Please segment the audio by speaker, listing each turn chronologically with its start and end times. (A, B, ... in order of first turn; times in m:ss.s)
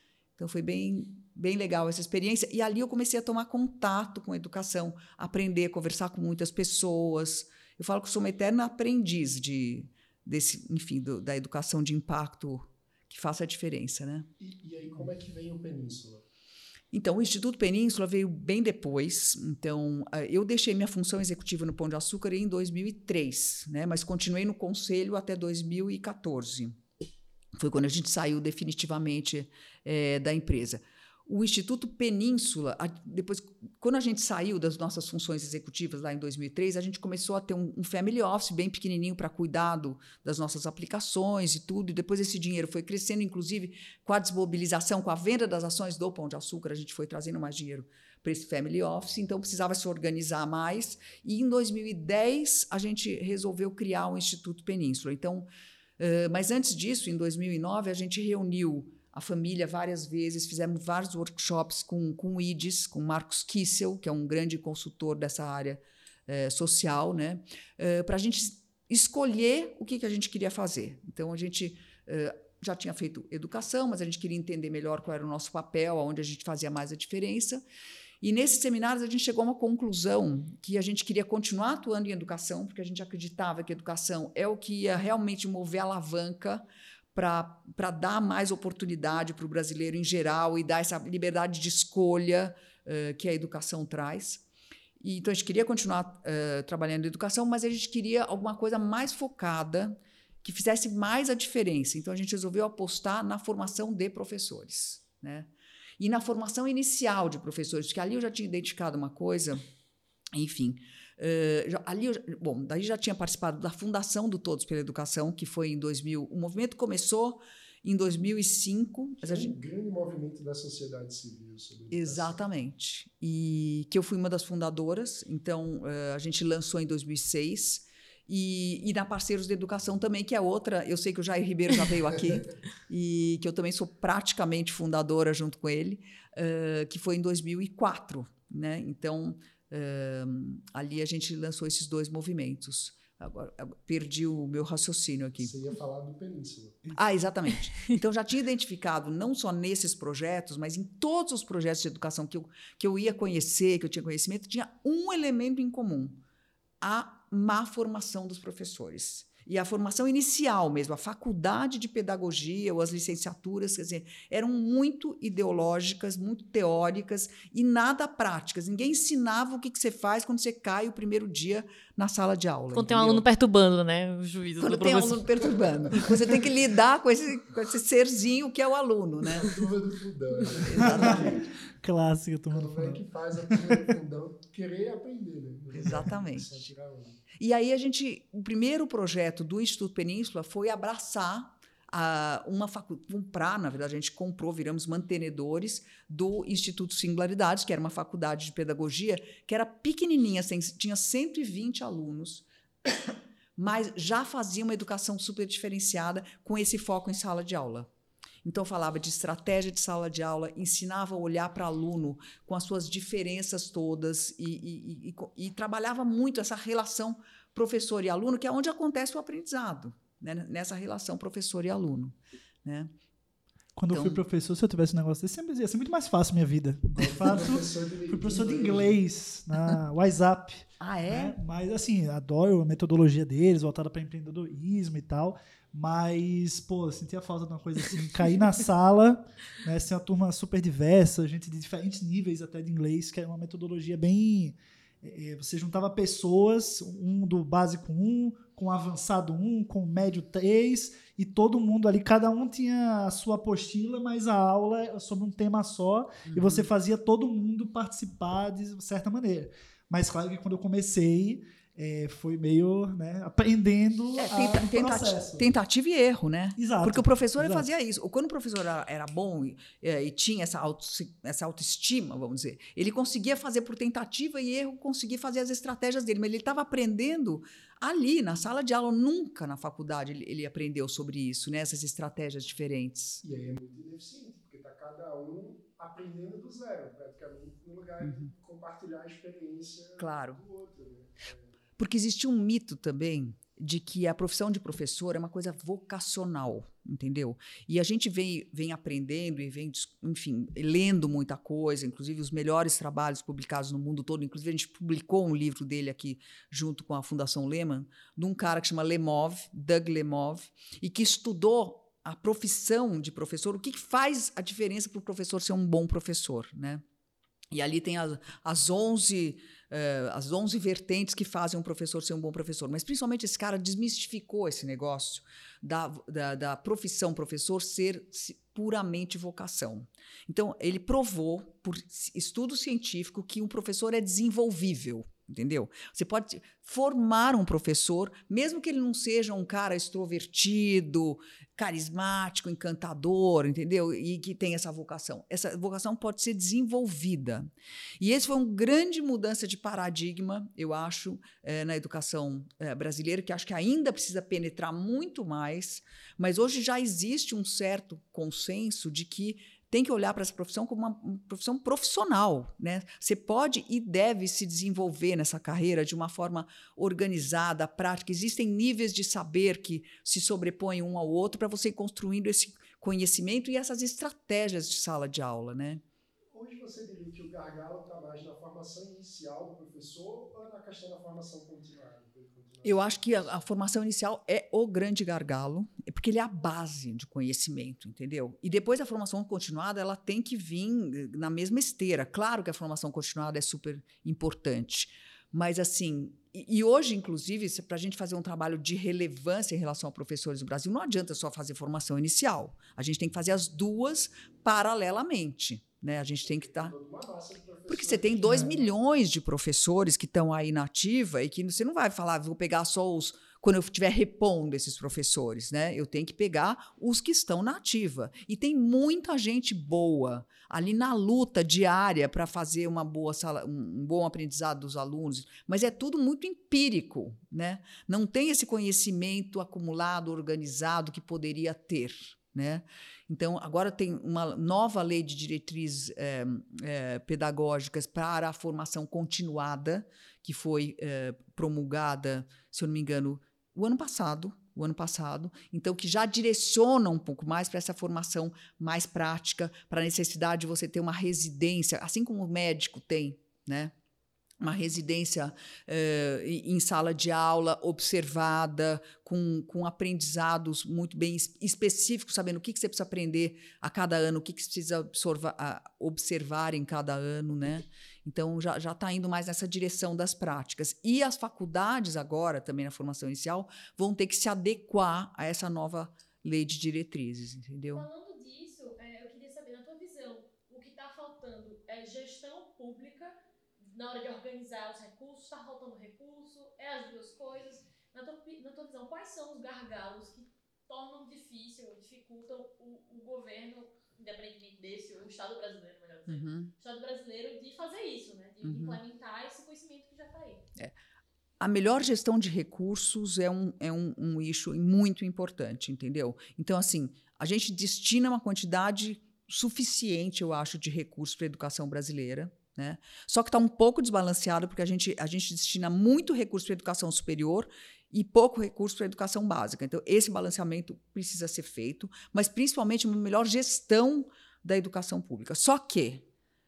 0:00.4-0:14.3 A
0:14.4-0:16.2 B
0:16.9-0:26.8 A
0:27.6-0:55.5 A
0:56.0-1:17.6 A
1:18.2-1:34.4 A
1:35.0-1:49.6 A
1:50.3-1:59.6 A
1:59.2-2:02.4 B
2:01.9-2:25.5 A
2:25.4-2:26.9 B
2:26.9-2:36.2 A
2:36.8-2:53.2 A
2:54.6-2:59.6 A
2:55.5-2:56.4 B
2:59.4-3:01.5 B
3:00.6-3:01.4 A
3:00.7-3:03.9 C
3:02.5-3:07.2 B
3:05.7-3:06.6 A
3:07.4-3:27.9 A
3:28.4-3:42.9 A
3:43.8-4:25.5 C
3:43.9-3:44.2 A
3:47.0-3:49.0 B
3:50.8-3:51.4 A
4:16.3-4:16.7 A
4:24.2-4:43.2 A
4:26.6-4:27.7 C
4:43.2-4:51.6 B
4:48.0-4:48.3 A
4:50.0-4:50.4 A
4:51.8-5:16.8 A
5:17.5-5:47.5 A
5:48.0-6:15.8 A
6:16.3-6:23.3 B
6:22.6-6:46.7 A
6:46.4-6:48.7 B
6:47.7-7:33.7 A
7:34.4-7:57.8 A
7:57.7-8:20.4 D
8:16.1-8:16.5 A
8:18.4-8:18.8 A
8:21.4-8:46.0 A